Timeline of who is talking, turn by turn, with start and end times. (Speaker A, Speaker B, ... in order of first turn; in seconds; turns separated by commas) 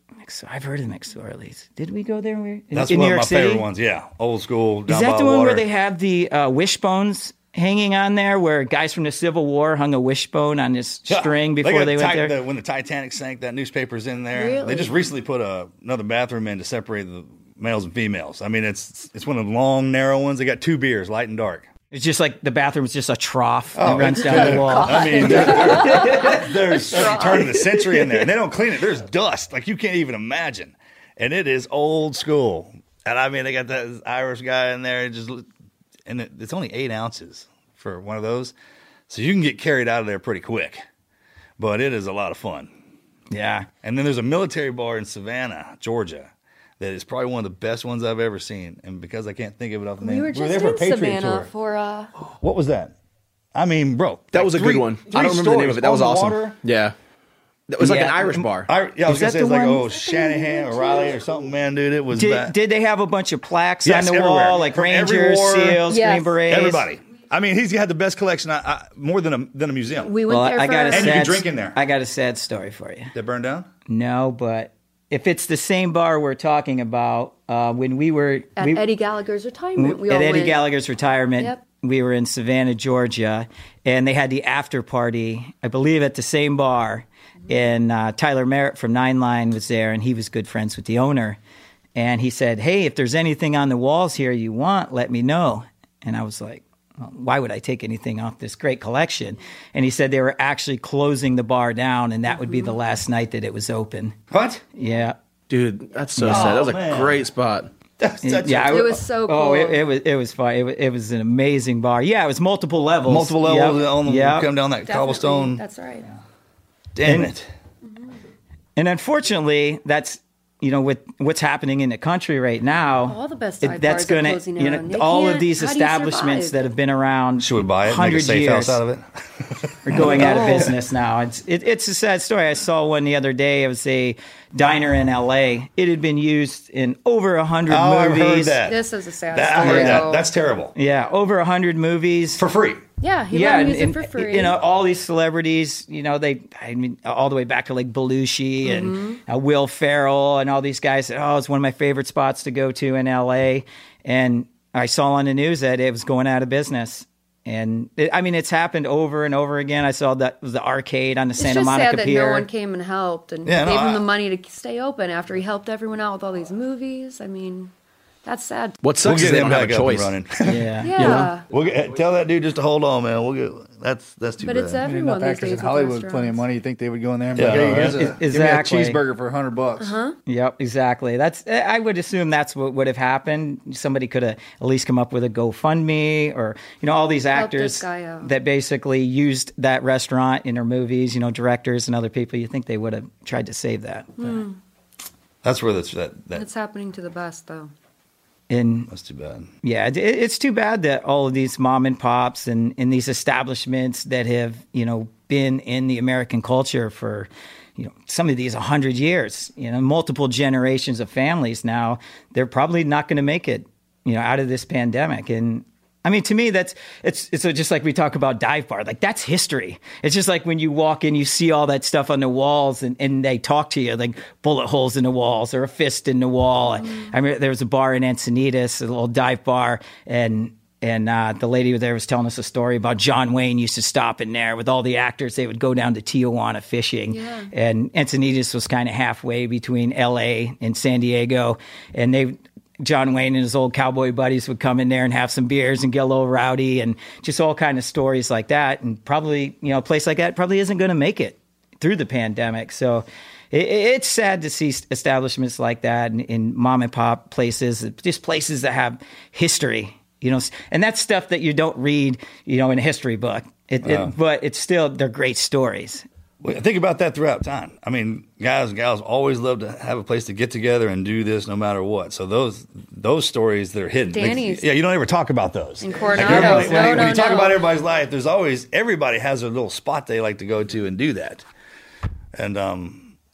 Speaker A: 0.2-3.7, Speaker B: 2.7-5.6, Speaker A: 4.9-12.3, Speaker B: 11.1-21.7, Speaker C: 14.3-14.9, Speaker A: 21.9-27.2, Speaker B: 23.7-35.4, Speaker C: 24.2-27.7, Speaker B: 36.0-38.5, Speaker B: 39.1-40.8, Speaker B: 41.6-42.7, Speaker A: 43.3-43.7, Speaker B: 43.8-51.5, Speaker C: 50.0-52.1, Speaker B: 52.2-52.9, Speaker B: 53.5-56.6, Speaker D: 54.3-56.9, Speaker D: 57.7-58.7, Speaker A: 57.8-58.5, Speaker B: 58.7-62.5, Speaker A: 59.0-59.9, Speaker C: 59.9-61.2, Speaker A: 62.1-66.8, Speaker B: 63.8-65.9, Speaker C: 65.9-66.3, Speaker B: 66.5-70.2, Speaker C: 70.0-71.3, Speaker A: 70.3-73.1, Speaker B: 70.9-71.8, Speaker B: 73.1-73.7, Speaker A: 73.9-78.9, Speaker C: 78.6-80.6, Speaker A: 79.8-91.4, Speaker A: 92.0-104.2, Speaker C: 102.5-102.7, Speaker B: 104.3-104.6, Speaker A: 104.7-105.2, Speaker D: 105.5-107.7, Speaker B: 106.2-107.2, Speaker A: 106.2-106.5, Speaker B: 108.0-108.9, Speaker A: 108.2-114.5, Speaker C: 108.7-109.8, Speaker B: 113.0-115.6, Speaker C: 114.8-116.1, Speaker B: 117.0-117.5, Speaker A: 117.0-117.3, Speaker A: 118.8-128.8, Speaker C: 123.1-126.6, Speaker B: 127.4-130.7, Speaker A: 129.8-138.6, Speaker C: 130.1-130.7, Speaker B: 137.7-140.7, Speaker C: 138.7-140.3, Speaker A: 139.6-140.1, Speaker A: 140.7-142.4, Speaker B: 142.4-142.8, Speaker C: 143.0-144.6, Speaker A: 143.3-162.5, Speaker C: 148.6-149.2, Speaker C: 161.4-167.7, Speaker B: 163.4-164.0, Speaker C: 168.2-168.8, Speaker D: 168.8-170.1, Speaker B: 169.0-174.8, Speaker A: 170.4-171.3, Speaker C: 170.8-171.4, Speaker D: 171.0-171.3, Speaker C: 174.4-176.4, Speaker E: 174.8-179.9, Speaker B: 177.3-178.1, Speaker A: 178.0-179.0, Speaker C: 179.8-180.2, Speaker A: 180.2-194.3, Speaker C: 187.3-188.3, Speaker C: 194.2-194.6, Speaker B: 195.4-196.4, Speaker C: 196.3-197.7, Speaker A: 198.5-198.9, Speaker B: 198.9-199.5, Speaker A: 199.6-266.0, Speaker C: 237.1-237.5, Speaker B: 263.8-264.1, Speaker B: 266.4-281.4, Speaker C: 274.1-274.7, Speaker C: 275.8-277.6, Speaker E: 276.2-276.8, Speaker A: 276.3-276.8, Speaker B: 282.3-283.1